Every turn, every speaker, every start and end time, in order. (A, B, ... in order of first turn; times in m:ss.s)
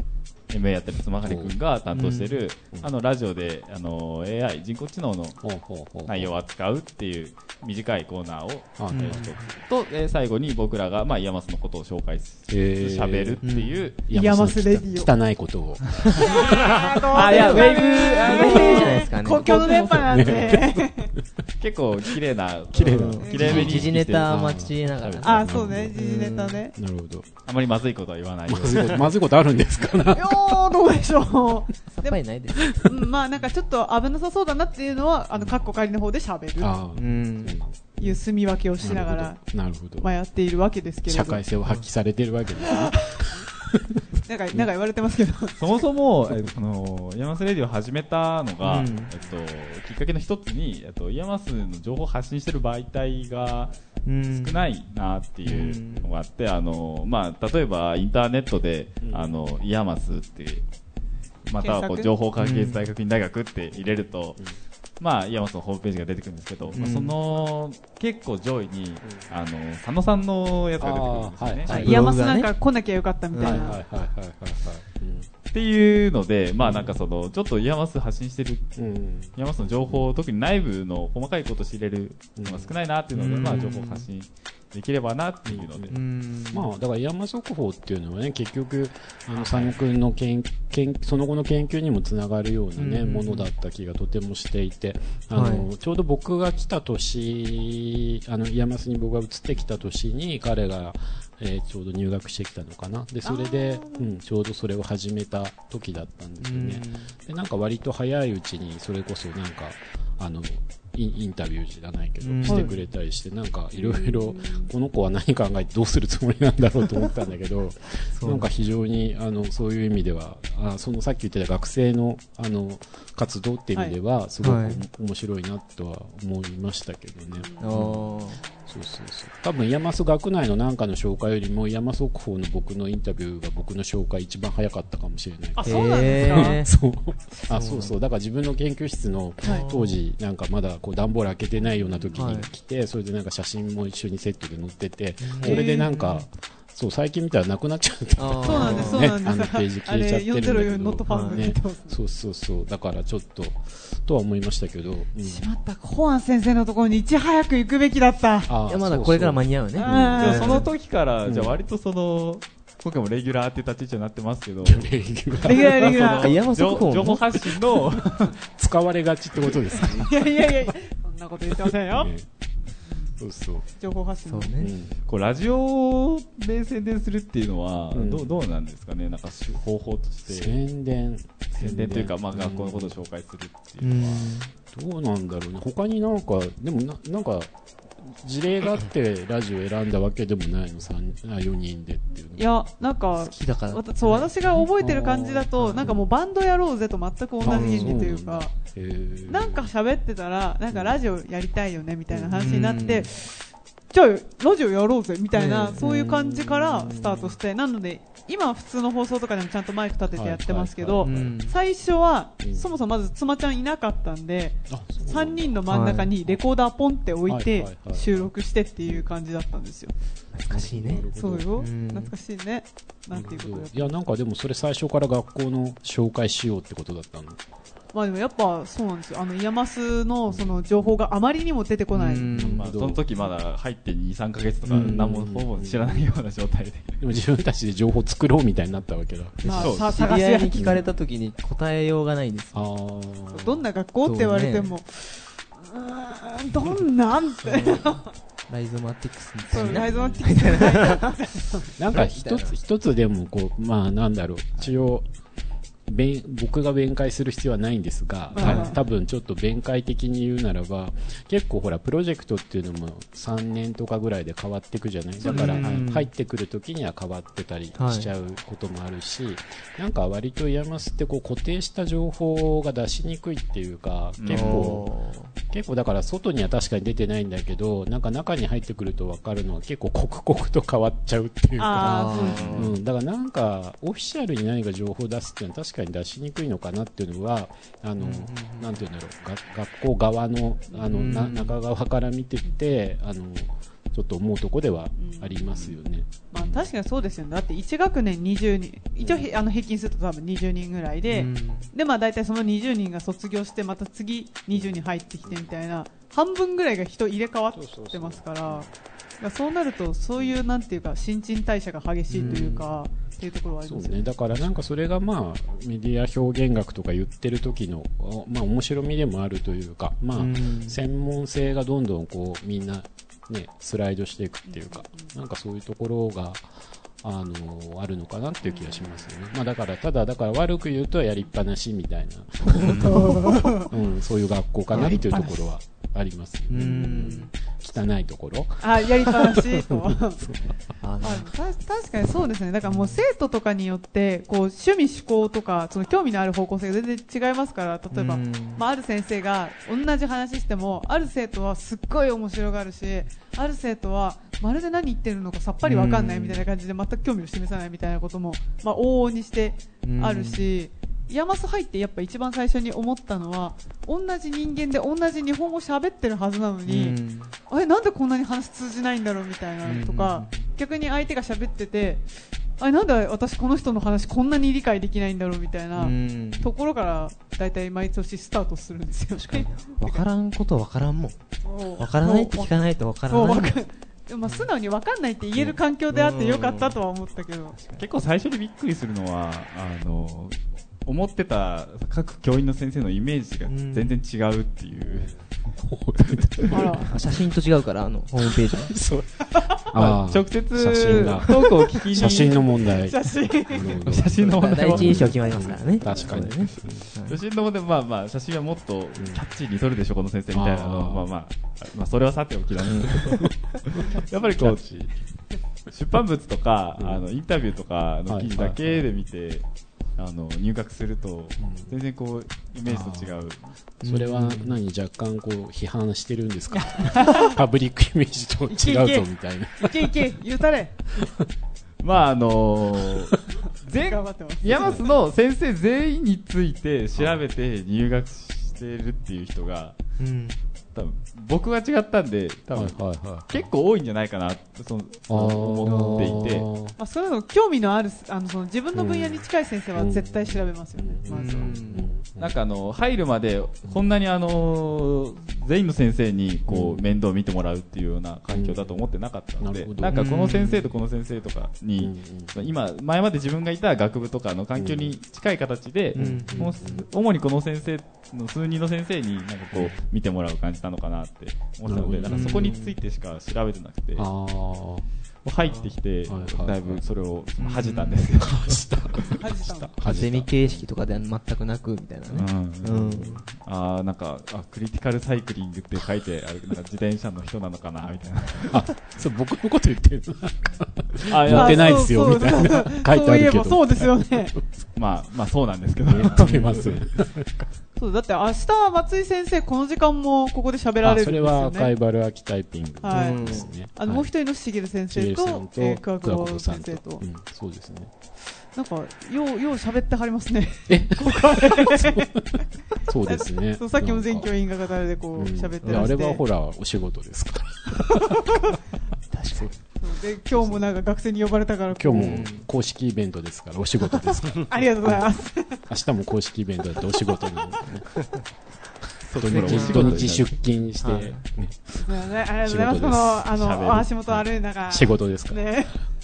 0:00.5-0:05.4 A
0:01.2-0:01.5 B
0:01.9-0:02.4 C
0:05.4-0:06.3 B
0:06.0-0:14.0 A
0:08.8-0:09.4 B
0:08.9-0:09.3 C
0:12.5-0:13.5 B
0:13.4-0:13.7 C
0:14.0-0:16.8 B
0:14.1-0:15.1 D
0:16.2-0:21.1 D
0:17.1-0:20.3 C
0:17.1-0:18.8 A
0:19.6-0:21.2 B
0:21.6-0:24.3 A
0:22.7-0:26.0 B
0:22.8-0:26.6 C
0:23.2-0:23.7 D
0:25.2-0:26.7 D
0:26.7-0:27.3 B
0:27.4-0:29.1 A
0:28.5-0:30.8 B
0:30.1-0:32.2 D
0:31.9-0:32.6 C
0:32.7-0:36.7 D
0:35.4-0:35.7 B
0:36.6-0:38.2 B
0:37.0-0:37.6 C
0:38.0-0:39.4 D
0:38.8-0:40.1 B
0:40.0-0:41.4 D
0:41.1-0:44.7 B
0:42.6-0:43.3 D
0:44.2-0:45.6 D
0:45.6-0:53.7 A
0:48.6-0:49.1 C
0:54.0-0:54.6 C
0:54.3-1:00.6 A
0:55.4-0:56.1 C
0:59.0-0:59.3 B
1:01.4-1:04.4 A
1:01.6-1:02.1 D
1:02.4-1:02.8 C
1:05.0-1:11.8 A
1:06.7-1:07.1 C
1:10.8-1:12.0 B
1:11.7-1:12.5 C
1:11.7-1:13.8 D
1:13.3-1:13.7 C
1:13.4-1:15.3 B
1:15.5-1:18.6 A
1:16.6-1:16.9 B
1:18.8-1:20.1 B
1:19.3-1:26.0 A
1:22.4-1:22.7 B
1:23.1-1:24.1 C
1:25.5-1:26.0 B
1:25.9-1:26.7 C
1:26.5-2:08.0 B
1:29.3-1:29.8 A
1:32.8-1:33.5 C
1:35.3-1:35.7 C
1:43.2-1:44.1 D
1:46.4-1:47.1 C
1:52.2-1:52.8 C
1:52.4-1:52.7 D
1:53.8-1:54.7 D
1:58.1-1:58.5 C
2:04.4-2:04.8 C
2:07.4-2:07.8 D
2:07.6-2:08.4 C
2:08.7-2:35.5 B
2:15.6-2:16.6 D
2:15.6-2:16.7 C
2:17.5-2:17.9 C
2:19.4-2:20.0 C
2:22.1-2:22.5 C
2:25.2-2:26.2 C
2:25.4-2:25.9 D
2:28.2-2:29.1 C
2:28.4-2:32.0 D
2:31.1-2:31.4 C
2:35.2-2:38.5 D
2:38.4-2:40.5 B
2:38.7-2:40.6 C
2:39.8-2:40.7 D
2:40.2-2:48.4 A
2:41.2-2:41.6 B
2:44.6-2:46.2 B
2:45.4-2:46.3 D
2:46.1-2:47.3 C
2:47.6-2:50.7 B
2:49.8-2:52.1 D
2:51.4-2:52.3 B
2:53.2-2:53.6 B
2:53.8-2:54.6 D
2:54.2-2:54.7 C
2:54.6-2:55.0 B
2:55.1-3:00.6 A
2:57.9-2:58.3 B
3:00.3-3:02.9 B
3:01.5-3:04.3 A
3:03.8-3:04.5 C
3:04.7-3:12.5 B
3:12.4-3:18.5 D
3:13.2-3:14.7 C
3:14.8-3:16.0 B
3:15.5-3:15.9 C
3:17.4-3:19.7 B
3:17.4-3:18.0 C
3:19.3-3:23.3 D
3:20.7-3:21.0 B
3:22.1-3:23.1 B
3:22.3-3:23.1 C
3:23.9-3:39.9 D
3:25.3-3:26.0 C
3:25.8-3:27.4 B
3:30.1-3:31.3 B
3:31.0-3:31.5 C
3:32.4-3:32.7 B
3:34.7-3:35.6 B
3:35.7-3:36.1 C
3:37.3-3:38.3 B
3:40.3-3:41.0 C
3:40.5-3:41.6 B
3:41.2-3:43.9 D
3:41.6-3:42.1 C
3:43.1-3:47.4 B
3:47.9-3:52.3 D
3:50.3-3:50.6 B
3:51.9-3:52.6 C
3:52.3-3:53.0 B
3:52.6-3:57.0 A
3:54.6-3:56.1 B
3:54.8-3:55.0 C
3:57.0-3:59.7 B
3:59.4-4:02.6 C
3:59.4-4:00.8 D
3:59.6-3:59.9 A
4:00.5-4:00.8 B
4:02.5-4:03.6 B
4:03.3-4:08.1 D
4:04.0-4:04.8 C
4:07.4-4:11.2 C
4:09.5-4:11.7 D
4:09.5-4:10.2 B
4:11.7-4:15.1 B
4:11.9-4:12.5 C
4:15.9-4:34.9 B
4:18.3-4:18.8 D
4:18.4-4:18.8 C
4:25.2-4:25.7 D
4:25.2-4:26.1 C
4:27.8-4:28.1 C
4:34.2-4:34.7 A
4:34.3-4:35.3 C
4:35.5-4:56.7 B
4:41.6-4:42.4 D
4:41.8-4:42.7 C
4:42.2-4:42.7 A
4:48.0-4:48.8 C
4:50.8-4:51.6 C
4:55.0-4:55.5 D
4:56.3-5:08.7 D
4:59.0-4:59.3 B
5:01.1-5:01.7 C
5:04.5-5:05.5 B
5:07.5-5:08.7 B
5:09.2-5:14.1 D
5:12.1-5:12.7 C
5:12.1-5:12.6 B
5:13.6-5:26.5 B
5:20.2-5:20.8 C
5:24.4-5:25.1 D
5:27.0-5:40.5 B
5:28.4-5:28.9 D
5:32.6-5:33.0 A
5:32.6-5:33.7 D
5:34.7-5:35.1 C
5:34.8-5:35.5 D
5:36.5-5:37.3 C
5:36.5-5:37.3 D
5:38.6-5:40.2 D
5:40.8-5:41.3 C
5:41.0-6:07.0 D
5:42.6-5:43.0 C
5:47.9-5:48.6 C
5:55.6-5:56.4 C
5:59.8-6:00.5 C
6:06.6-6:07.3 C
6:07.5-6:12.0 D
6:09.6-6:10.5 C
6:12.6-6:20.0 D
6:15.8-6:16.5 C
6:19.1-6:21.2 C
6:21.4-6:22.5 D
6:21.8-6:23.6 C
6:23.1-6:27.6 D
6:25.4-6:26.8 C
6:27.6-6:27.8 C
6:27.8-6:35.2 A
6:33.5-6:34.0 C
6:34.9-6:37.0 B
6:36.5-6:36.9 D
6:36.8-6:38.7 C
6:38.5-6:46.9 B
6:39.7-6:42.4 A
6:42.0-6:43.8 D
6:43.8-6:46.2 A
6:44.4-6:47.2 C
6:47.0-6:54.6 A
6:50.3-6:51.1 B
6:52.7-6:53.0 C
6:52.9-6:54.9 B
6:55.7-6:59.4 A
6:56.8-6:57.0 B
6:58.1-6:58.8 B
7:00.0-7:03.4 A
7:01.4-7:01.7 B
7:02.6-7:03.2 B
7:03.8-7:04.6 C
7:03.8-7:10.0 B
7:06.5-7:07.4 D
7:08.5-7:09.0 D
7:09.6-7:10.8 D
7:11.8-7:19.8 A
7:13.8-7:14.9 D
7:14.5-7:14.8 B
7:20.0-7:20.4 C
7:20.7-7:26.5 A
7:22.5-7:23.5 B
7:25.1-7:26.8 B
7:25.6-7:26.2 C
7:26.8-7:31.6 D
7:28.7-7:32.3 B
7:31.1-7:31.9 C
7:32.2-7:54.1 A
7:36.5-7:36.9 B
7:38.3-7:38.7 B
7:39.4-7:40.0 B
7:39.9-7:40.7 C
7:41.8-7:42.4 B
7:44.6-7:44.9 B
7:45.9-7:46.5 C
7:45.9-7:46.8 B
7:49.5-7:49.8 B
7:51.6-7:52.5 B
7:52.0-7:52.8 C
7:54.0-7:54.8 B
7:55.2-7:59.0 A
7:55.4-7:55.7 C
7:56.0-7:56.8 B
7:57.4-7:58.0 C
7:58.2-8:00.7 B
7:59.2-7:59.7 D
7:59.8-8:03.2 C
8:02.1-8:08.6 A
8:02.9-8:03.2 B
8:08.5-8:14.2 B
8:11.1-8:11.9 A
8:11.3-8:14.3 D
8:14.7-8:16.3 A
8:15.9-8:17.4 B
8:16.2-8:16.7 C
8:17.8-8:21.7 D
8:20.8-8:24.1 B
8:22.8-8:27.0 D
8:22.9-8:23.5 C
8:24.9-8:27.9 B
8:28.5-8:32.4 D
8:30.7-8:34.3 B
8:33.0-8:36.2 D
8:35.1-8:38.3 B
8:35.6-8:35.9 C
8:37.9-8:38.4 D
8:39.1-8:39.5 C
8:39.8-8:42.2 D
8:40.3-8:40.6 B
8:41.7-8:45.0 B
8:41.9-8:42.4 C
8:44.5-8:45.6 D
8:45.7-8:48.0 B
8:49.1-8:50.2 A
8:49.1-8:50.2 C
8:49.1-8:53.4 B
8:50.8-8:51.2 C
8:51.8-8:55.8 D
8:53.3-8:53.9 A
8:54.1-8:55.6 B